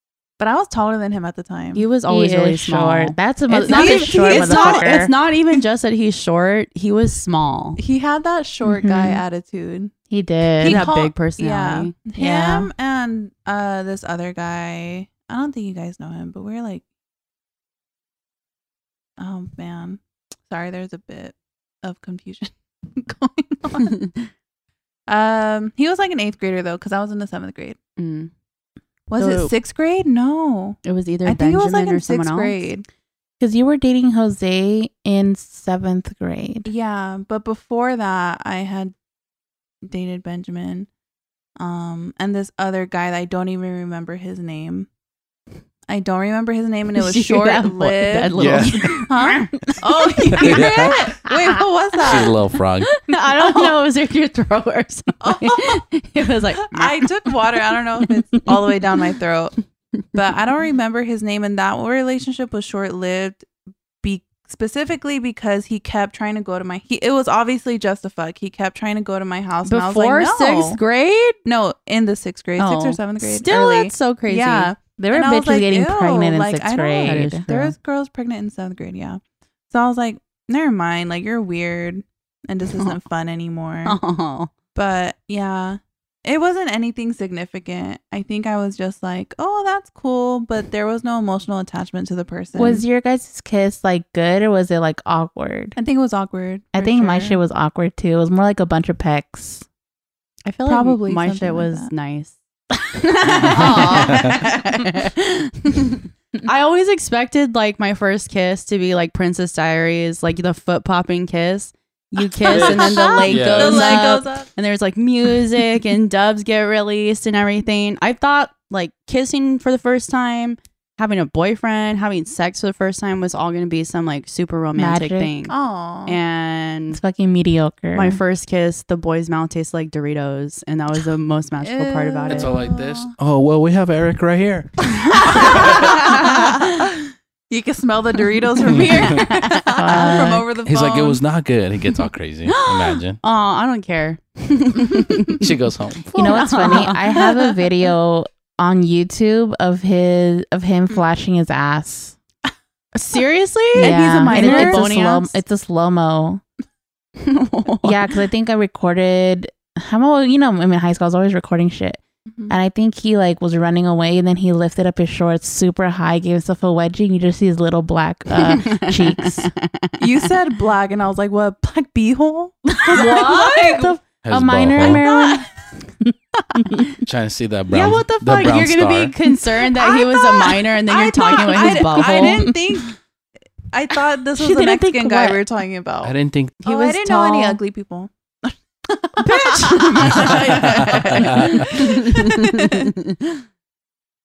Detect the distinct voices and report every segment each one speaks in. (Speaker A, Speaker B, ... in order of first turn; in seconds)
Speaker A: 0.4-1.9, 3.6-4.9, 7.8-9.9, 10.6-16.8, 19.2-23.9, 25.1-27.8, 29.1-32.8, 36.6-38.9, 39.8-40.9, 41.6-44.9, 45.9-52.3, 55.2-55.8, 56.6-59.6, 60.1-63.5, 64.0-70.8, 71.4-84.0, 84.7-92.8, 95.8-97.4, 100.7-101.9, 112.4-114.5, 125.5-126.2, 131.6-133.1, 135.2-141.2, 153.8-154.8, 162.3-162.5, 170.0-173.9, 174.9-175.4, 179.7-182.9, 183.7-192.9
Speaker B: 1.7-7.8, 10.6-11.9, 23.7-24.2, 28.0-28.3, 29.2-29.5, 30.8-32.5, 47.0-49.6, 50.3-51.6, 52.9-57.1, 69.7-71.3, 72.6-74.7, 77.0-77.7, 83.8-84.5, 100.4-102.3, 103.0-125.5, 126.0-127.0, 127.9-132.5, 135.1-136.8, 138.7-140.3, 142.5-145.5, 146.1-147.4, 152.9-155.4, 157.2-158.1, 168.3-170.3, 172.9-174.0, 177.7-182.5, 184.5-185.3, 186.6-187.6, 189.2-193.3
Speaker C: 2.1-5.1, 8.6-9.2, 10.1-10.8, 12.2-12.7, 33.4-36.7, 75.0-77.5, 92.5-95.8, 96.7-99.6, 124.8-125.3, 126.9-128.2, 139.8-140.5, 146.1-152.2, 153.8-156.4, 157.8-169.5, 172.8-175.5, 176.0-177.0, 181.5-182.6, 184.4-185.3
Speaker D: 48.3-49.0, 50.3-51.1, 52.0-52.9, 103.4-104.3, 112.5-114.0, 132.3-135.9, 138.6-139.2, 140.6-143.2, 145.4-146.3, 174.2-175.0, 177.0-179.1, 186.0-186.6, 190.1-191.7